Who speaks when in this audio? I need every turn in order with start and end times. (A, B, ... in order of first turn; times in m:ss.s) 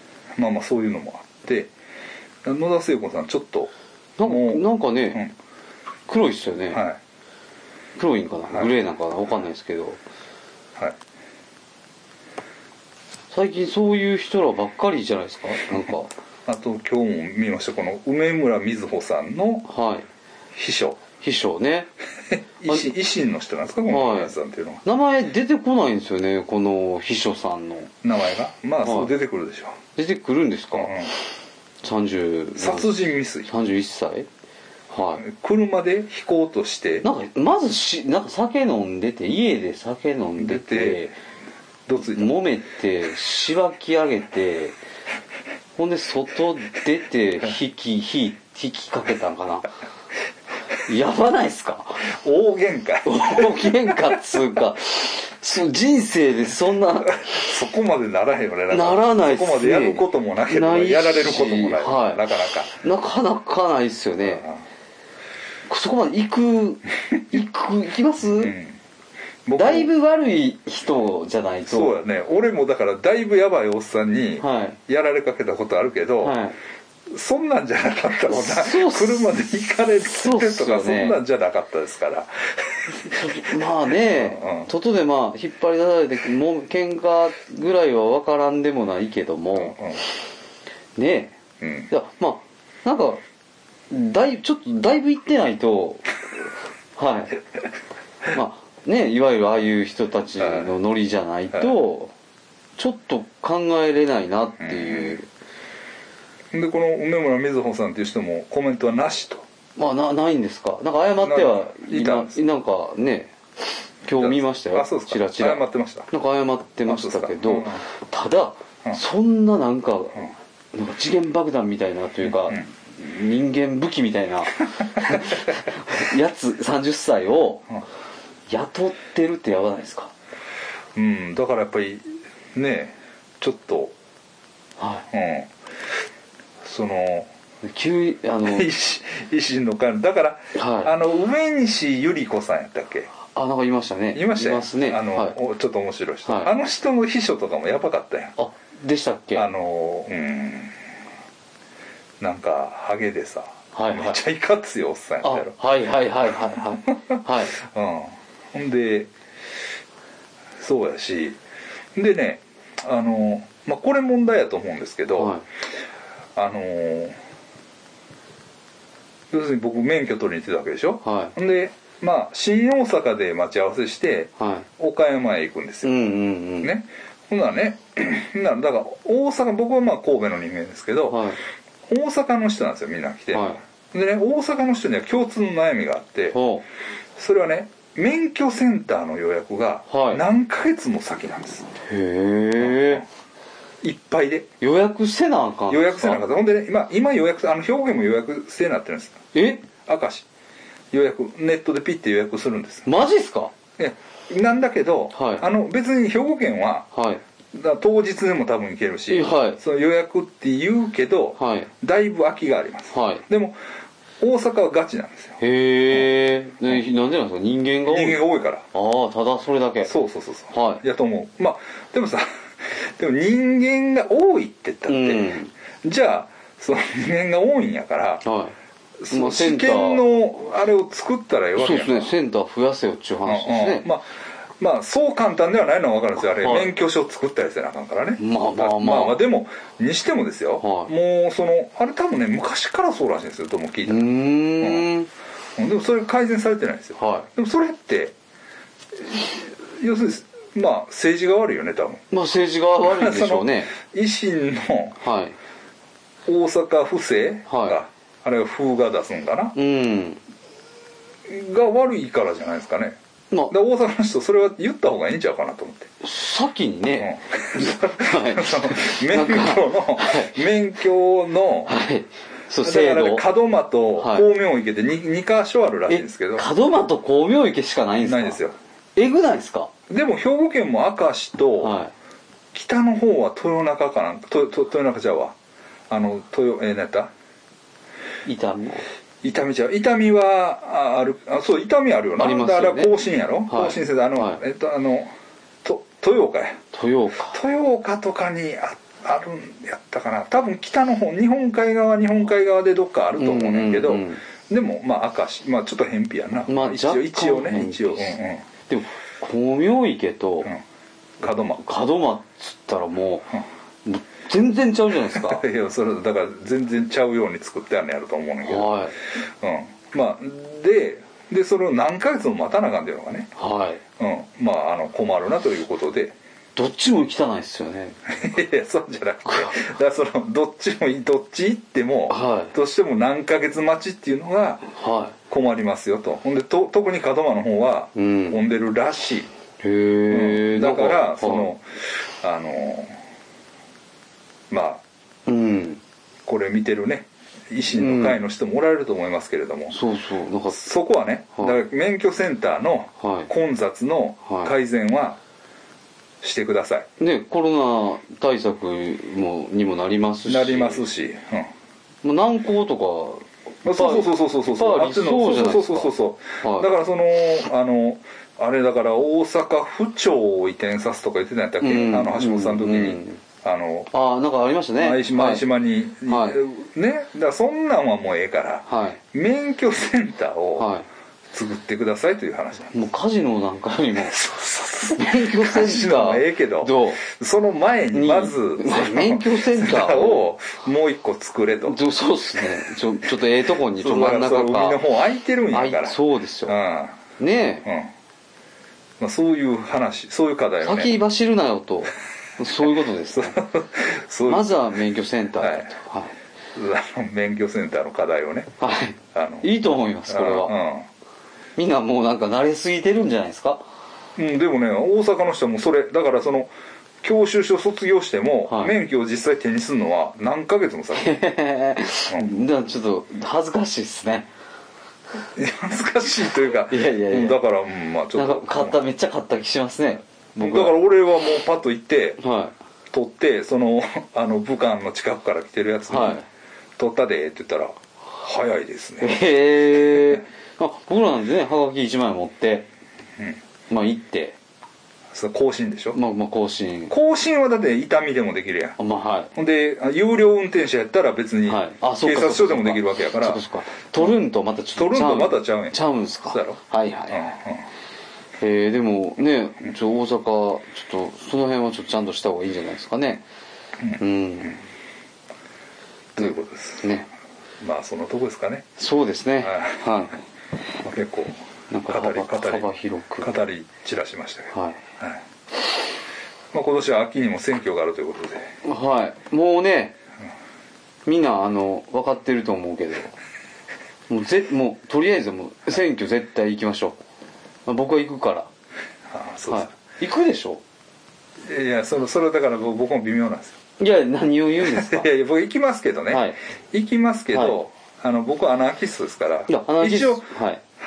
0:00.4-0:01.7 A
0:02.4-0:03.7 A
0:04.2-0:05.2 B
0:04.2-0:05.3 A
0:06.1-0:06.8 B
0:06.7-0:07.0 A
0:08.0-0:10.0 B
0:13.3-0:16.1 B
0:16.5-0:19.7 A
0:19.7-0:20.1 B
0:20.6-0:21.0 A
0:21.2-0:21.9 B
0:22.3-0:24.8 A
0:23.9-0:24.3 B
0:24.8-0:27.9 B
0:28.0-0:29.8 A
0:28.8-0:29.1 B
0:30.0-0:31.0 B
0:30.7-0:31.1 A
0:31.8-0:34.3 B
0:32.6-0:33.5 A
0:34.9-0:35.2 B
0:35.2-0:37.1 A
0:37.0-0:41.1 B
0:40.4-0:41.1 A
0:41.9-0:42.4 A
0:42.1-0:44.8 B
0:45.8-0:49.7 B
0:50.8-0:52.1 B
0:52.1-0:54.4 A
0:53.0-0:57.3 B
0:57.1-1:02.7 A
0:58.7-1:02.2 B
1:02.7-1:04.5 B
1:04.2-1:04.6 A
1:05.7-1:08.6 B
1:08.4-1:08.8 A
1:09.5-1:09.9 A
1:09.6-1:12.0 B
1:11.7-1:16.4 A
1:14.4-1:14.8 B
1:16.2-1:16.6 B
1:17.1-1:24.7 A
1:18.3-1:19.3 B
1:20.1-1:21.2 B
1:23.0-1:29.8 B
1:29.5-1:30.0 A
1:31.0-1:31.4 B
1:31.6-1:31.9 A
1:31.9-1:33.2 B
1:33.9-1:37.4 B
1:38.3-1:42.1 B
1:40.4-1:40.7 A
1:42.8-1:45.3 B
1:44.6-1:45.2 A
1:46.5-1:49.4 A
1:49.8-1:53.4 B
1:51.2-1:52.4 A
1:54.0-2:07.8 B
1:54.2-1:56.1 A
1:56.9-1:57.8 A
2:02.3-2:02.6 A
2:08.5-2:10.1 B
2:11.0-2:13.9 A
2:14.8-2:15.1 B
2:15.1-2:15.5 A
2:16.6-2:17.3 A
2:17.6-2:18.7 B
2:18.4-2:23.1 A
2:20.6-2:20.9 B
2:23.2-2:25.4 B
2:24.1-2:28.4 A
2:26.3-2:26.5 B
2:28.4-2:29.5 B
2:29.4-2:30.8 A
2:32.2-2:35.6 A
2:33.7-2:34.2 B
2:35.2-2:37.6 B
2:37.2-2:39.1 A
2:40.6-2:41.4 A
2:42.0-2:45.4 A
2:45.2-2:45.4 B
2:46.4-2:47.2 A
2:49.3-2:56.0 A
2:51.0-2:51.3 B
2:54.4-2:54.7 B
2:55.8-2:56.7 B
2:56.6-3:01.3 A
3:01.1-3:01.4 B
3:01.9-3:06.4 A
3:03.3-3:03.6 B
3:06.3-3:06.6 B
3:07.2-3:11.7 A
3:09.9-3:10.2 B
3:11.8-3:13.0 B
3:12.6-3:13.0 A
3:13.8-3:14.5 A
3:14.6-3:16.2 B
3:15.7-3:20.3 A
3:19.3-3:19.7 B
3:20.9-3:22.9 A
3:22.9-3:23.5 B
3:23.8-3:26.9 A
3:25.1-3:25.5 B
3:26.9-3:27.2 B
3:27.5-3:33.6 A
3:29.1-3:29.6 B
3:31.4-3:31.7 B
3:32.9-3:33.2 B
3:34.2-3:35.4 A
3:35.4-3:38.2 B
3:37.9-3:38.7 A
3:38.7-3:39.9 B
3:39.9-3:48.2 A
3:40.5-3:40.8 B
3:44.9-3:45.5 B
3:48.2-3:48.6 B
3:49.0-3:52.1 A
3:49.1-3:50.0 B
3:51.6-3:53.9 B
3:53.3-4:04.9 A
3:56.4-3:56.7 B
3:58.2-3:59.2 B
4:00.6-4:00.9 B
4:03.9-4:05.1 B
4:05.6-4:08.1 A
4:07.0-4:07.3 B
4:09.0-4:12.0 A
4:12.1-4:13.7 B
4:12.8-4:15.0 A
4:15.0-4:15.4 B
4:16.3-4:19.6 A
4:17.5-4:17.8 B
4:19.6-4:20.2 B
4:21.3-4:23.0 A
4:23.5-4:25.9 A
4:26.0-4:30.4 B
4:27.0-4:31.7 A
4:31.7-4:33.3 B
4:32.6-4:36.5 A
4:34.0-4:34.3 B
4:35.9-4:38.4 B
4:38.0-4:38.6 A
4:39.0-4:39.7 B
4:39.9-4:41.8 A
4:41.6-4:41.9 B
4:42.5-4:45.4 A
4:45.9-4:47.1 A
4:48.3-4:48.9 B
4:49.2-4:55.1 A
4:52.2-4:52.9 B
4:53.5-4:54.4 B
4:55.6-4:56.6 A
4:56.7-4:57.4 B
4:57.3-5:08.5 A
5:03.2-5:04.2 B
5:06.5-5:08.2 B
5:08.7-5:10.5 B
5:11.2-5:11.6 A
5:11.6-5:13.3 B
5:13.8-5:15.4 B
5:15.1-5:23.3 A
5:18.4-5:19.0 B
5:23.4-5:23.8 B
5:24.0-5:26.2 A
5:26.6-5:28.0 B
5:28.1-5:34.7 A
5:29.3-5:29.6 B
5:32.1-5:32.5 B
5:34.7-5:35.2 B
5:35.3-5:39.3 A
5:38.0-5:38.4 B
5:39.6-5:41.6 B
5:40.1-5:43.0 A
5:44.5-5:44.8 A
5:45.3-5:45.8 B
5:46.3-5:49.8 A
5:47.8-5:48.2 B
5:49.7-5:50.7 B
5:50.5-5:55.2 A
5:53.0-5:53.3 B
5:54.3-5:54.5 B
5:56.2-5:56.9 A
5:57.0-6:00.9 B
6:00.3-6:01.5 A
6:02.0-6:06.7 B
6:03.6-6:13.9 A
6:11.6-6:13.2 B
6:13.9-6:15.4 B
6:14.8-6:20.7 A
6:16.1-6:16.4 B
6:18.7-6:19.0 B
6:20.6-6:20.9 B
6:21.3-6:22.8 A
6:22.7-6:24.2 B
6:24.1-6:31.8 A
6:24.9-6:27.0 B
6:27.9-6:30.3 B
6:31.6-6:34.8 B
6:33.8-6:37.0 A
6:35.5-6:36.6 B
6:37.2-6:37.7 B
6:37.6-6:37.9 A
6:39.0-6:41.0 A
6:40.6-6:43.4 B
6:43.1-6:44.6 A
6:44.3-6:46.2 B
6:45.4-6:45.7 A
6:46.5-6:48.5 A
6:48.6-6:50.6 B
6:49.1-6:49.5 A
6:50.1-6:50.9 A
6:51.6-6:53.6 B
6:54.2-7:01.2 A
6:58.5-6:58.8 B
7:00.9-7:04.3 B
7:05.4-7:08.8 A
7:06.7-7:07.4 B
7:08.2-7:10.8 B
7:10.4-7:12.2 A
7:12.2-7:12.5 B
7:12.9-7:16.2 A
7:15.9-7:16.3 B
7:16.8-7:19.3 A
7:19.0-7:22.7 B
7:19.8-7:20.2 A
7:23.7-7:24.4 B
7:25.1-7:26.0 A
7:25.9-7:26.9 B
7:26.9-7:28.8 A
7:28.8-7:29.3 B
7:29.4-7:33.4 A
7:31.5-7:37.3 B
7:34.8-7:35.8 A
7:36.3-7:36.6 A
7:37.1-7:37.6 A
7:38.4-7:43.2 B
7:44.0-7:44.6 B
7:46.2-7:46.9 A
7:46.2-7:47.1 B
7:47.6-7:48.7 A
7:48.8-7:50.2 B
7:49.4-7:50.1 A
7:50.8-7:51.4 A
7:51.7-7:53.3 B
7:51.9-7:55.2 A
7:54.5-7:54.8 B
7:56.5-7:58.5 A
7:58.6-8:00.0 B
8:01.1-8:03.1 B
8:04.1-8:07.0 B
8:07.7-8:08.5 B
8:09.1-8:09.7 A
8:09.5-8:10.6 B
8:11.4-8:13.6 A
8:13.8-8:15.1 B
8:14.6-8:20.3 A
8:16.1-8:16.4 B
8:17.3-8:17.6 B
8:19.5-8:20.6 B